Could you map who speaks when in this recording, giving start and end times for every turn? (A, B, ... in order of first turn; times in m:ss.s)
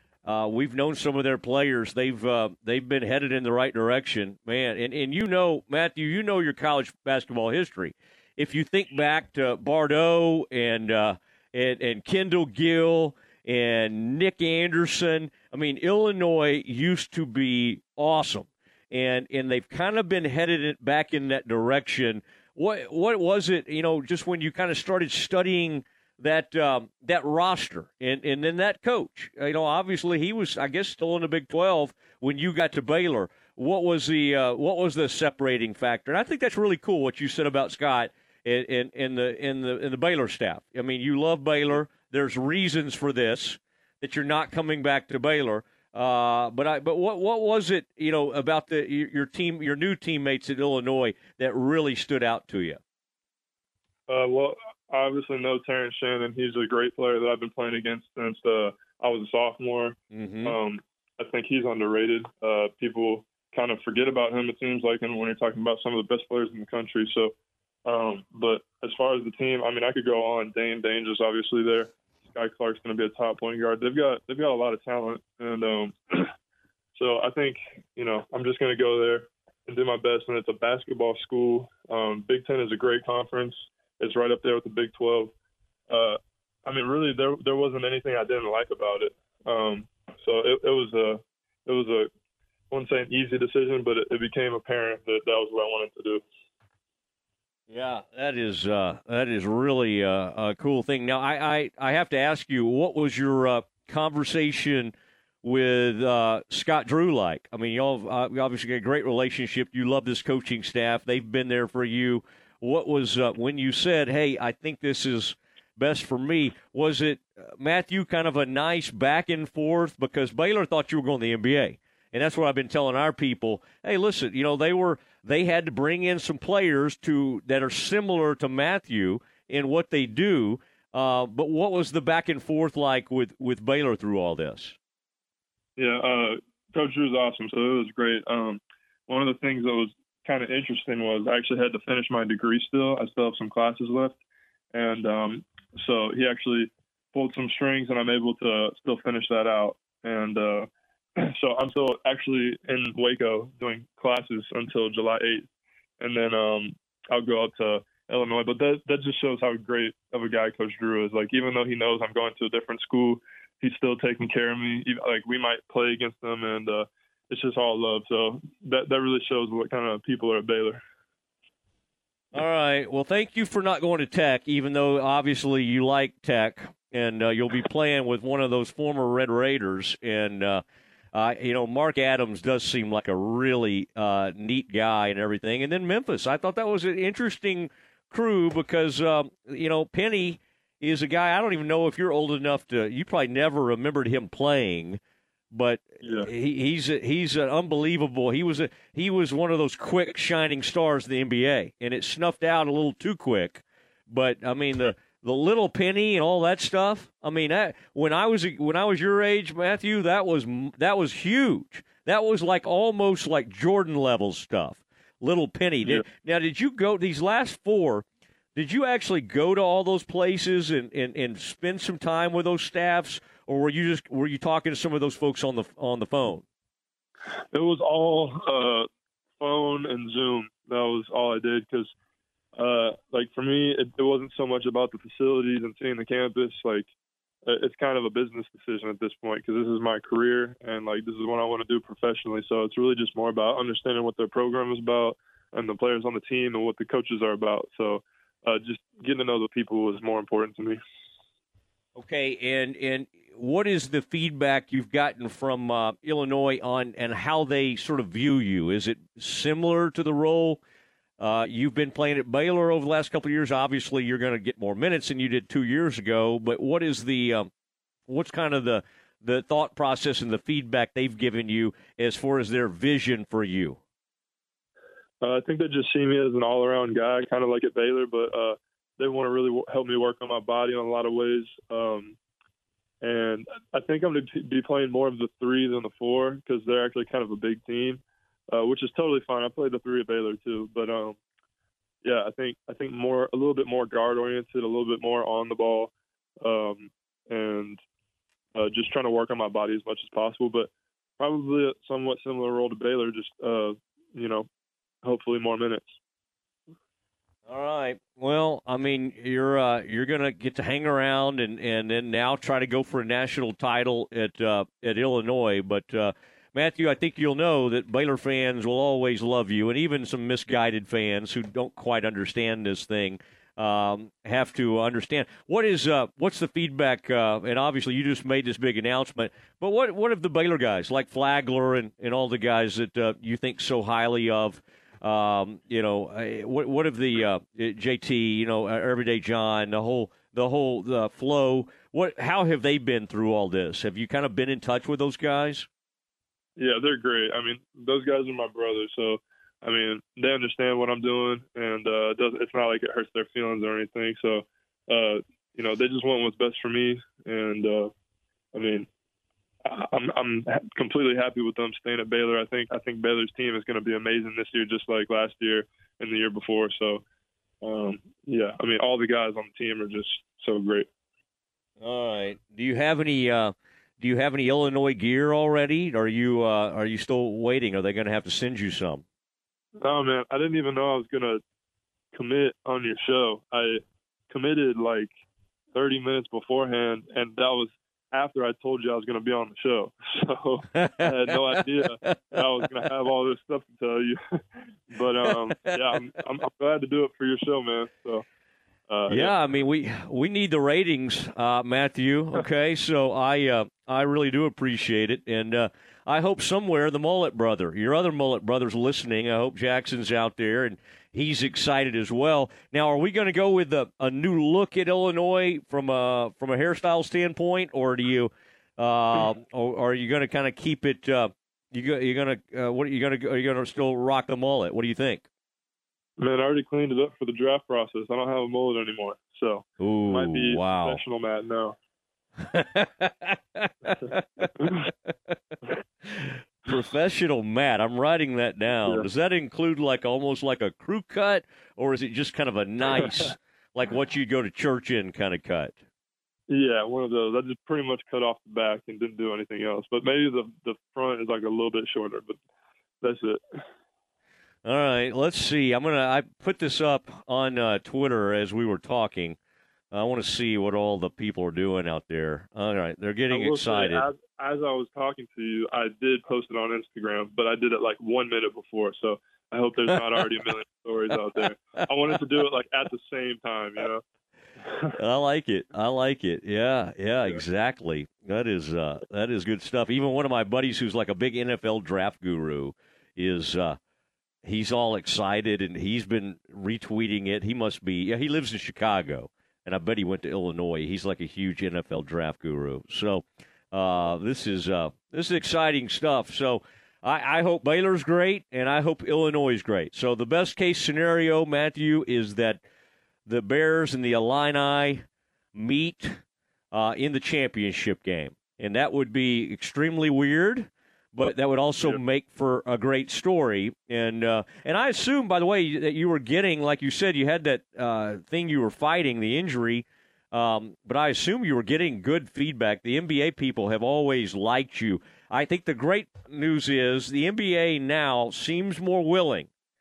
0:00.2-0:52.8 A
0:54.1-1:07.3 B
1:00.1-1:00.6 A
1:07.8-1:16.3 B
1:16.9-1:25.3 B
1:25.9-1:32.1 B
1:32.7-1:36.2 B
1:37.7-2:14.8 A
2:15.8-2:24.2 B
2:24.7-2:30.7 B
2:31.2-2:35.4 B
2:36.0-2:50.8 B
2:52.3-3:15.0 A
3:15.5-3:38.0 A
3:16.0-3:16.3 B
3:38.5-3:46.4 A
3:47.5-3:48.9 B
3:49.4-3:51.9 B
3:52.6-3:56.9 B
3:57.4-4:10.8 B
4:12.0-4:20.6 A
4:21.2-4:27.5 A
4:28.1-4:33.8 A
4:35.2-4:42.2 B
4:43.0-4:51.2 B
4:52.0-4:57.8 B
4:58.6-5:04.5 B
5:05.0-5:06.0 B
5:07.5-5:45.7 A
5:46.6-5:57.9 B
5:58.5-5:58.9 B
5:59.6-6:07.0 B
6:07.6-6:10.9 B
6:11.8-6:19.0 A
6:19.8-6:21.4 B
6:22.1-6:25.1 B
6:25.7-6:38.2 B
6:30.7-6:32.4 A
6:35.2-6:36.0 A
6:38.9-6:39.4 B
6:39.1-7:05.2 A
7:06.2-7:11.8 B
7:09.8-7:11.0 A
7:12.4-7:15.3 A
7:16.0-7:25.8 A
7:23.0-7:23.3 B
7:26.5-7:32.4 B
7:33.0-7:33.4 B
7:34.6-7:39.4 A
7:39.9-7:44.0 A
7:43.3-7:54.0 B
7:49.9-7:50.3 A
7:55.0-8:03.8 A
8:04.4-8:22.6 A
8:23.2-8:26.2 A
8:26.7-8:49.5 A